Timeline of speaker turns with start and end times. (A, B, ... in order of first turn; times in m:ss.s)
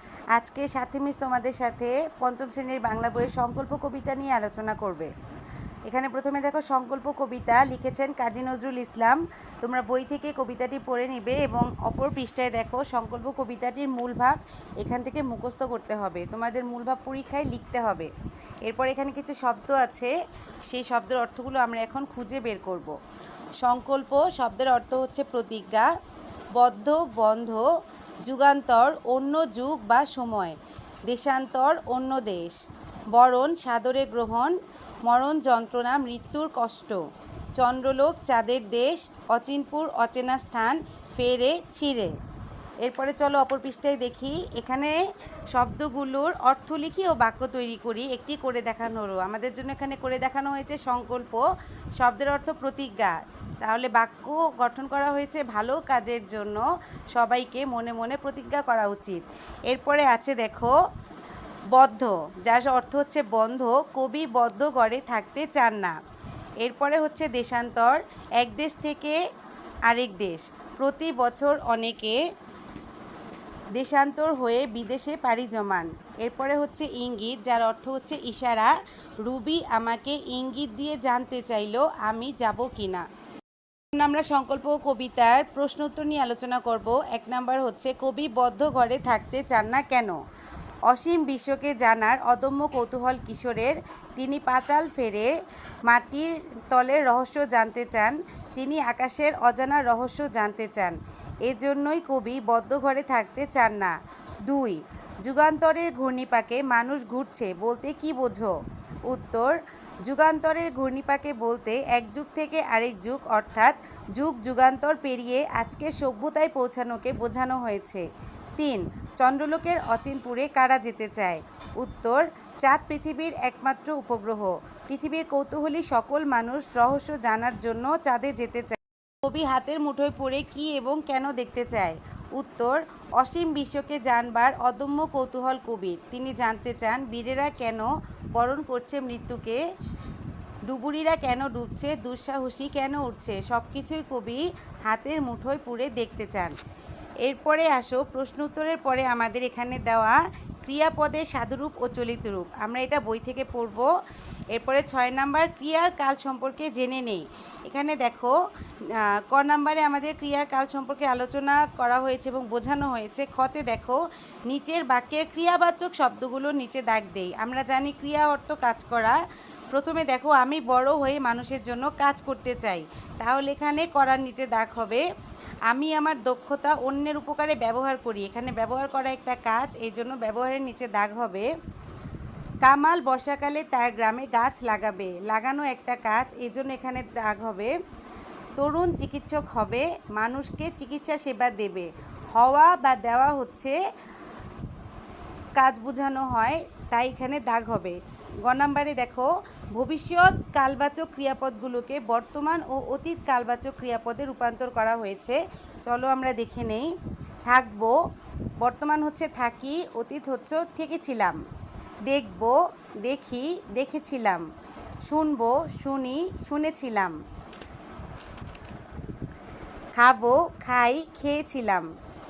0:00.3-0:05.1 A
0:05.9-0:18.1 A
0:18.6-0:20.1 A
0:20.7-0:23.0 A
0:23.6-0:25.9 A
0:26.6-0:27.7 A
0:28.2-0:32.6 A
0:33.1-0:37.0 A
0:37.6-0:42.2 A
0:42.8-0:45.0 A
0:45.5-0:51.4 A
0:52.0-0:56.6 A
0:57.1-1:00.8 A
1:01.7-1:06.0 A
1:06.6-1:09.2 A
1:09.8-1:12.2 A
1:13.7-1:23.0 A
1:23.9-1:30.2 A
1:30.8-1:35.3 A
1:35.8-1:48.5 A
1:49.1-1:58.0 A
1:58.6-2:19.6 A
2:20.6-2:26.5 A
2:27.2-2:33.9 A
2:34.5-2:38.4 A
2:38.9-2:49.2 A
2:49.7-2:55.0 A
2:55.7-3:01.5 A
3:02.6-3:07.7 A
3:08.6-3:13.8 A
3:15.6-3:26.9 A
3:27.4-3:28.0 A
3:28.6-3:31.4 A
3:32.0-3:34.4 A
3:35.0-3:37.2 A
3:40.0-3:41.9 A